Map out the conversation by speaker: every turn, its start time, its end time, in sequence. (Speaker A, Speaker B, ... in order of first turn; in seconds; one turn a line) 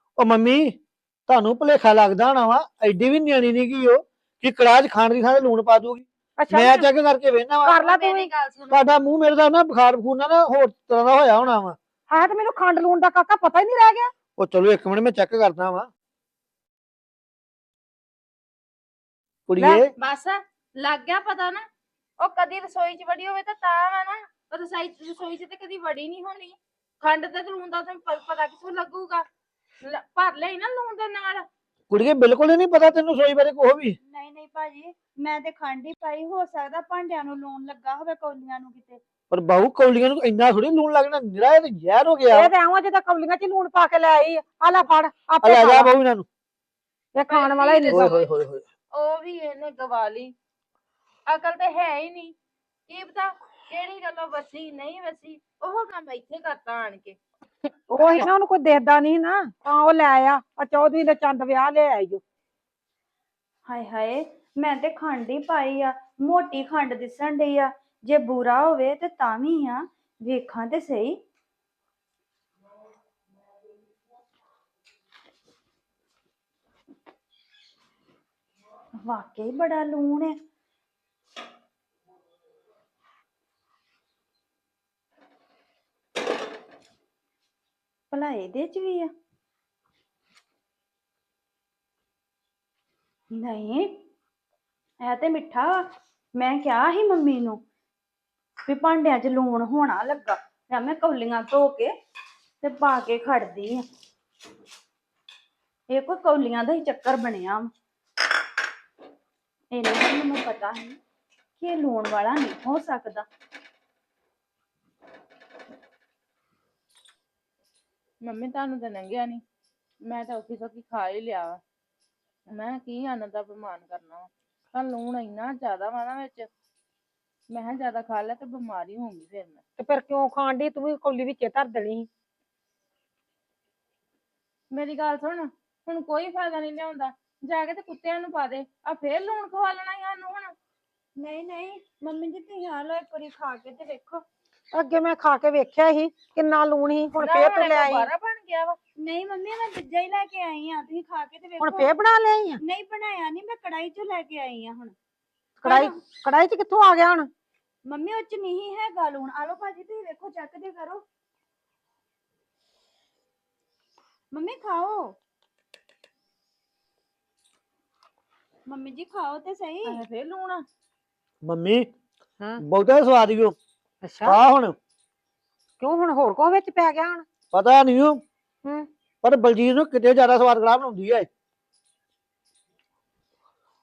Speaker A: 0.2-0.8
Speaker A: 1.3-7.7
Speaker B: 6.4-6.9
Speaker B: 7.6-8.3
Speaker C: 7.7-8.8
Speaker A: 8.7-11.8
Speaker B: 12.1-14.1
Speaker A: 14.4-15.9
Speaker A: 19.5-19.9
Speaker C: 19.9-21.6
Speaker C: 22.2-29.2
Speaker C: 29.8-31.5
Speaker A: 31.9-34.0
Speaker D: 34.0-39.0
Speaker A: 39.3-42.5
Speaker B: 42.3-45.9
Speaker A: 45.4-46.2
Speaker B: 47.1-48.1
Speaker C: 47.3-48.3
Speaker A: 47.9-48.6
Speaker C: 48.9-50.3
Speaker C: 51.3-52.3
Speaker C: 52.9-57.2
Speaker B: 57.9-62.2
Speaker D: 63.6-71.2
Speaker D: 79.0-80.4
Speaker D: 88.1-89.1
Speaker D: 93.3-93.9
Speaker D: 95.0-95.8
Speaker D: 96.3-97.6
Speaker D: 98.7-101.9
Speaker D: 102.6-103.8
Speaker D: 105.9-107.7
Speaker D: 109.7-111.0
Speaker D: 111.6-113.3
Speaker C: 118.2-119.4
Speaker C: 120.0-121.6
Speaker C: 122.5-126.5
Speaker C: 127.5-129.6
Speaker B: 129.8-132.1
Speaker C: 134.7-140.5
Speaker D: 141.2-144.2
Speaker B: 144.7-148.1
Speaker C: 147.2-148.8
Speaker D: 149.0-151.9
Speaker B: 151.6-152.6
Speaker D: 152.6-154.9
Speaker B: 155.6-157.3
Speaker D: 155.6-155.9
Speaker D: 157.8-161.0
Speaker D: 164.3-165.2
Speaker D: 168.7-170.0
Speaker C: 169.8-170.6
Speaker A: 171.4-171.9
Speaker A: 172.6-173.5
Speaker B: 174.0-174.4
Speaker A: 174.2-174.8
Speaker B: 175.8-177.2
Speaker A: 177.5-178.2
Speaker A: 179.2-181.3